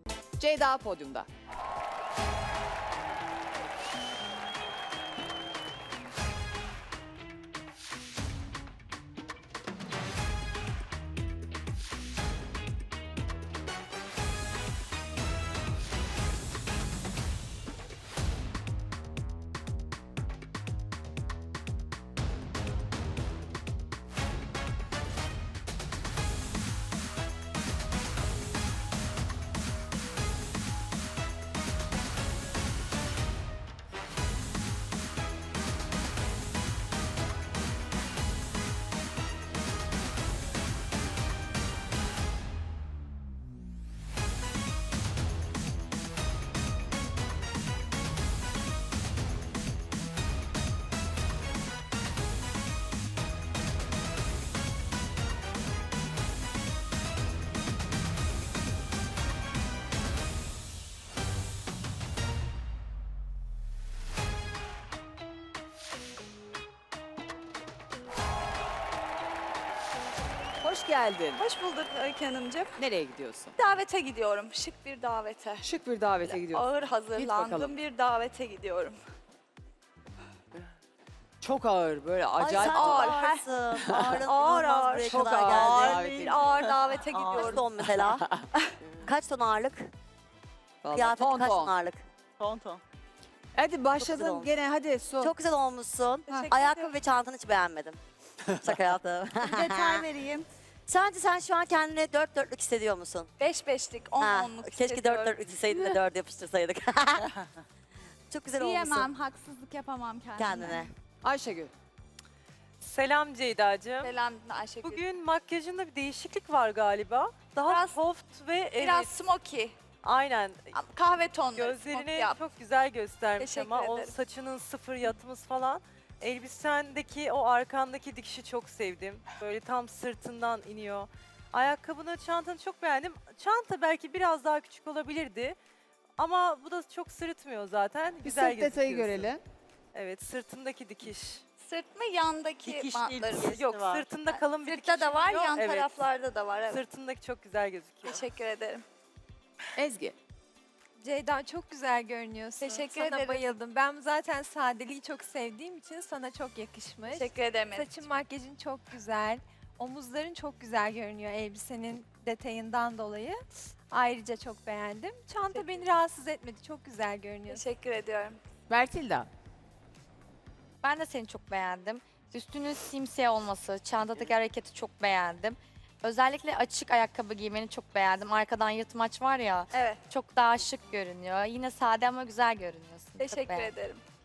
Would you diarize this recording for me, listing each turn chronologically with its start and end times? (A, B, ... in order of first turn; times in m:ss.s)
0:00.4-0:01.3 A
1:10.6-1:11.4 A
1:11.4-1:12.8 B
1:12.8-1:13.6 A
1:13.6-1:15.6 B
1:15.6-1:17.8 A
1:16.2-1:19.0 B
1:21.4-1:24.3 A
1:22.4-1:28.2 C
1:22.5-1:25.2 B
1:25.0-1:26.8 A
1:26.1-1:27.7 B
1:27.4-1:28.4 A
1:29.0-1:29.9 C
1:30.8-1:31.8 A
1:30.9-1:32.8 C
1:33.5-1:35.3 A
1:34.0-1:34.5 C
1:35.2-1:38.0 C
1:36.3-1:36.9 B
1:38.6-1:40.1 C
1:39.4-1:40.5 B
1:40.9-1:43.3 C
1:43.4-1:46.0 B
1:44.2-1:47.3 C
1:48.3-1:49.1 C
1:48.6-1:50.8 B
1:50.4-1:50.9 C
1:51.2-1:51.7 A
1:52.8-1:54.1 D
1:54.0-1:55.0 B
1:54.8-1:59.2 D
1:57.5-1:58.0 B
1:58.8-1:59.8 B
2:00.0-2:00.8 D
2:00.7-2:02.4 B
2:01.5-2:15.6 D
2:03.4-2:04.1 B
2:16.2-2:19.3 D
2:18.2-2:19.4 A
2:19.9-2:21.4 D
2:21.6-2:26.8 B
2:22.6-2:26.1 D
2:26.7-2:28.2 D
2:28.0-2:28.8 B
2:29.8-2:30.1 A
2:31.0-2:47.6 E
2:32.6-2:33.5 B
2:37.1-2:38.0 B
2:45.5-2:45.8 B
2:47.5-2:48.4 B
2:48.7-2:49.3 A
2:50.8-3:03.7 F
2:59.7-3:00.0 B
3:03.2-3:04.0 B